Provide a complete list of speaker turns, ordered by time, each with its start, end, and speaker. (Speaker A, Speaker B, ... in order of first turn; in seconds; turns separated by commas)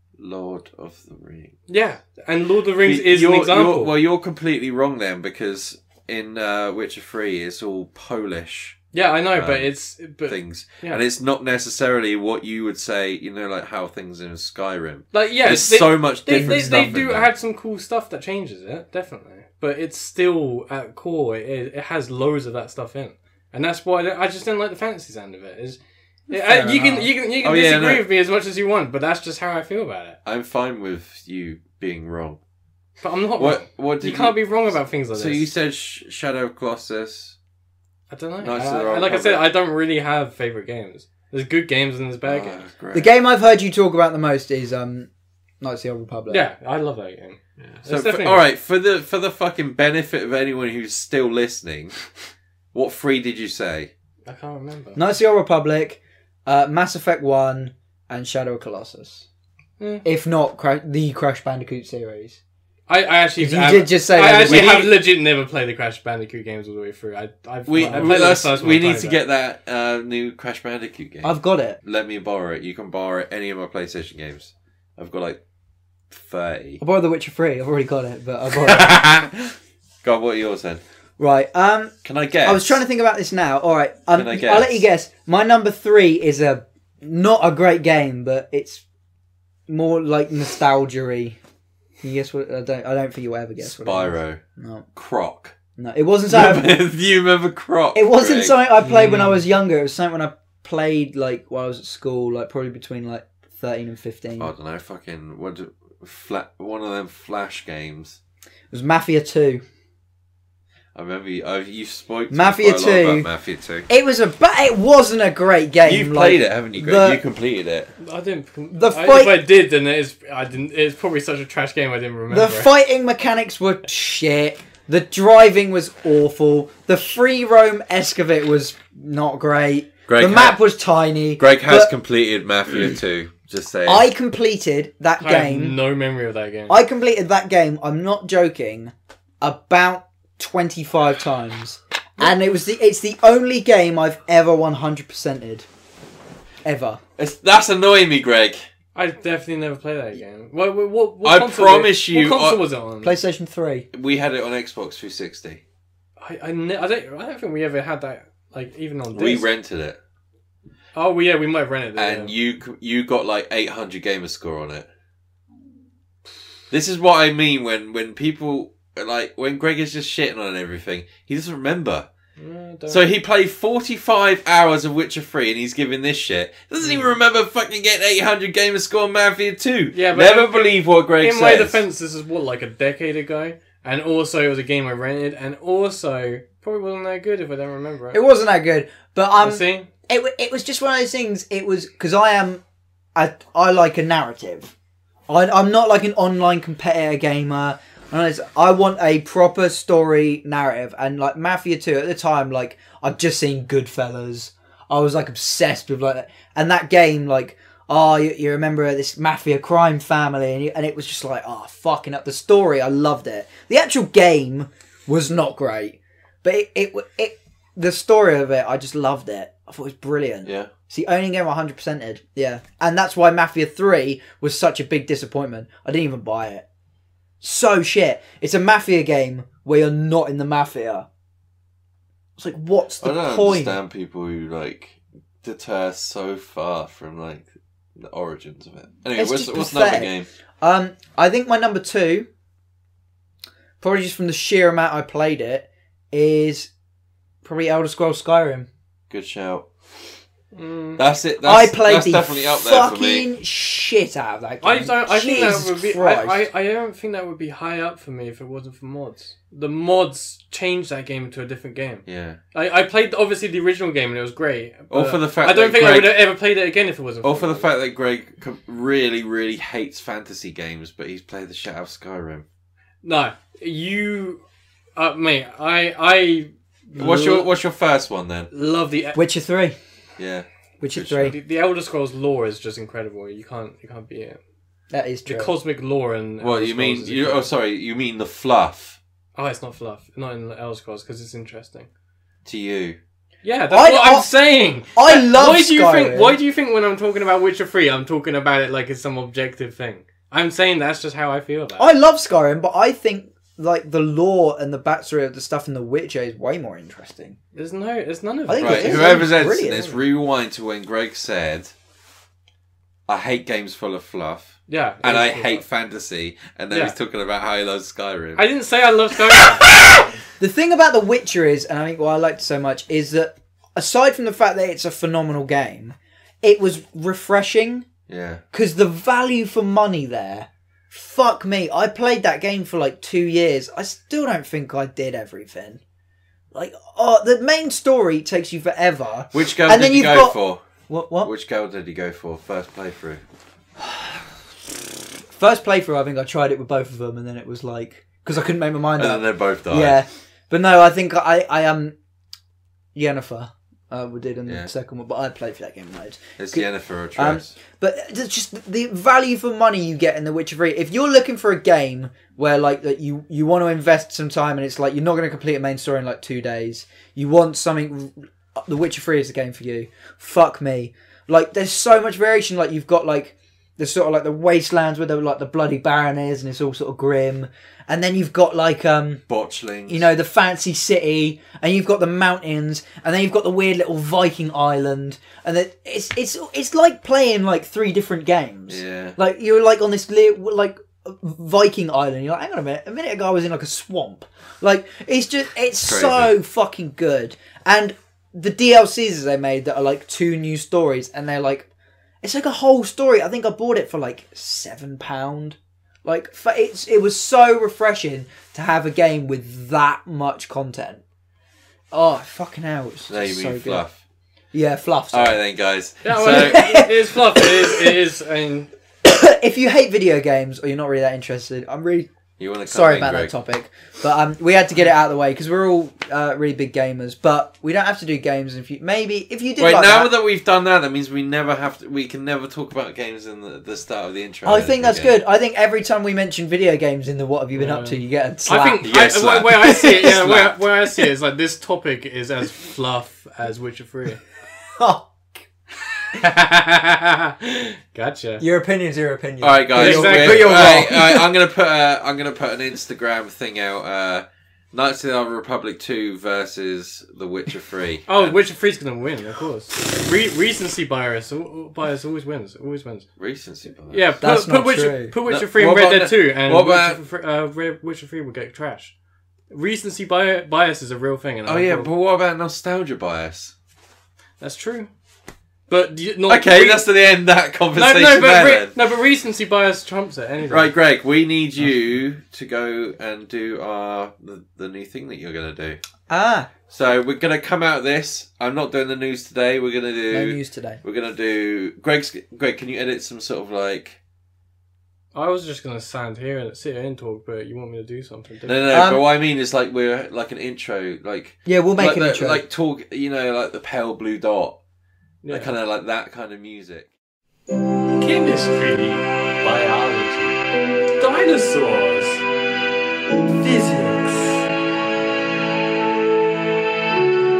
Speaker A: 0.2-1.6, Speaker B: 1.7-3.9, Speaker A: 2.8-8.8, Speaker B: 8.9-11.0, Speaker A: 9.3-9.7, Speaker A: 10.2-17.3, Speaker B: 15.1-30.2, Speaker C: 16.4-16.9, Speaker C: 26.3-27.1, Speaker A: 27.4-28.0, Speaker A: 30.2-32.4, Speaker B: 33.0-35.5, Speaker A: 33.4-34.5, Speaker A: 35.1-37.4, Speaker B: 38.1-42.6, Speaker A: 38.4-39.5, Speaker A: 42.2-43.1, Speaker C: 42.9-45.1, Speaker C: 45.6-46.5, Speaker B: 46.3-48.4, Speaker A: 47.9-52.0, Speaker A: 52.7-53.9, Speaker B: 54.2-55.0, Speaker C: 55.0-59.3, Speaker B: 59.8-60.0, Speaker C: 60.0-62.4, Speaker B: 62.9-69.2, Speaker C: 63.4-64.8, Speaker A: 64.4-64.9, Speaker A: 67.7-75.4, Speaker C: 67.8-68.3, Speaker C: 71.2-71.8, Speaker A: 76.1-76.8, Speaker C: 76.8-79.0, Speaker A: 78.6-79.5, Speaker A: 80.0-80.8, Speaker C: 81.2-81.9, Speaker A: 82.0-82.8, Speaker C: 82.4-88.8, Speaker A: 84.1-84.8, Speaker C: 89.7-91.4, Speaker C: 92.0-94.9, Speaker A: 93.6-94.4, Speaker A: 94.9-95.5, Speaker C: 95.8-96.8, Speaker A: 96.3-98.5, Speaker C: 97.9-104.5, Speaker B: 98.8-99.4, Speaker A: 104.4-108.2, Speaker C: 108.7-109.6, Speaker A: 110.9-113.9, Speaker C: 112.3-113.3, Speaker C: 113.9-117.2, Speaker A: 115.8-117.9, Speaker B: 118.0-122.7, Speaker C: 118.7-119.4, Speaker C: 122.3-131.9, Speaker A: 130.1-130.6, Speaker A: 131.4-134.1, Speaker C: 133.9-135.8, Speaker B: 135.2-136.7, Speaker C: 136.7-145.7, Speaker C: 146.6-147.0, Speaker A: 147.2-148.6, Speaker B: 148.9-153.2, Speaker A: 151.2-152.6, Speaker C: 153.0-153.9, Speaker A: 153.9-155.6, Speaker B: 156.2-159.5, Speaker A: 159.1-160.0, Speaker B: 160.9-162.3, Speaker A: 162.0-164.9, Speaker A: 166.7-172.1, Speaker B: 172.4-173.0, Speaker A: 172.9-181.8, Speaker B: 176.8-177.1, Speaker B: 179.9-188.2, Speaker C: 188.1-192.6, Speaker B: 189.4-189.9, Speaker C: 193.1-194.7, Speaker C: 195.3-226.6, Speaker A: 220.4-220.7, Speaker C: 227.4-231.1, Speaker C: 232.4-233.8, Speaker A: 233.0-240.3, Speaker C: 239.2-242.3, Speaker C: 243.8-246.7, Speaker C: 247.4-248.7, Speaker A: 249.1-249.7, Speaker B: 250.5-251.0, Speaker A: 251.0-253.2, Speaker C: 251.4-256.4, Speaker B: 254.6-267.7, Speaker A: 262.1-262.4, Speaker A: 264.9-266.2, Speaker A: 267.2-272.4, Speaker B: 273.0-274.4, Speaker B: 274.9-277.5, Speaker A: 277.0-278.5, Speaker B: 278.5-279.2, Speaker C: 279.1-279.8, Speaker A: 280.2-281.3, Speaker C: 280.8-281.4, Speaker B: 281.2-284.4, Speaker C: 284.9-285.5, Speaker B: 285.2-287.5, Speaker A: 286.4-289.0, Speaker B: 289.3-291.9, Speaker A: 292.4-293.0, Speaker B: 293.4-301.9, Speaker C: 293.7-294.3, Speaker C: 294.9-296.4, Speaker C: 301.8-307.4, Speaker B: 307.5-309.9, Speaker C: 308.5-309.9, Speaker A: 308.6-311.7, Speaker A: 313.1-318.4, Speaker B: 314.7-315.6, Speaker B: 318.4-319.7, Speaker C: 319.7-327.9, Speaker A: 328.1-328.4, Speaker C: 328.5-335.8, Speaker C: 336.5-340.4, Speaker A: 339.3-340.6, Speaker C: 340.9-341.3, Speaker A: 341.2-343.2, Speaker C: 345.3-351.9, Speaker A: 349.0-350.0, Speaker C: 352.9-379.2, Speaker A: 356.4-357.5, Speaker A: 379.3-380.1, Speaker C: 379.9-401.7, Speaker A: 388.7-389.1, Speaker A: 395.8-396.3, Speaker C: 402.2-411.0, Speaker C: 411.9-413.8, Speaker A: 413.1-414.0, Speaker C: 414.5-415.4, Speaker A: 415.1-416.6, Speaker B: 416.0-418.7, Speaker C: 416.2-417.4, Speaker C: 419.0-422.1, Speaker A: 422.4-423.3, Speaker C: 422.6-430.1, Speaker A: 429.6-435.1, Speaker C: 434.4-439.0, Speaker B: 437.6-444.2, Speaker A: 438.8-440.5, Speaker C: 439.6-440.4, Speaker C: 444.7-445.4, Speaker B: 446.2-448.4, Speaker C: 448.4-451.2, Speaker A: 449.4-458.4, Speaker B: 449.7-450.9, Speaker B: 458.1-463.1, Speaker A: 463.2-464.1, Speaker B: 463.9-468.9, Speaker C: 464.2-465.1, Speaker A: 465.2-467.0, Speaker B: 469.5-471.9, Speaker A: 471.4-473.5, Speaker B: 474.4-474.9, Speaker B: 475.7-476.8, Speaker A: 476.3-478.8, Speaker B: 477.7-480.7, Speaker A: 480.5-485.8, Speaker C: 486.1-486.5, Speaker A: 486.7-494.0, Speaker C: 490.1-490.8, Speaker B: 495.1-498.6, Speaker A: 498.4-504.6, Speaker C: 498.7-499.0, Speaker C: 501.4-502.4, Speaker B: 505.2-505.5, Speaker A: 505.3-506.9, Speaker B: 507.9-510.3, Speaker B: 511.0-512.2, Speaker C: 513.3-514.4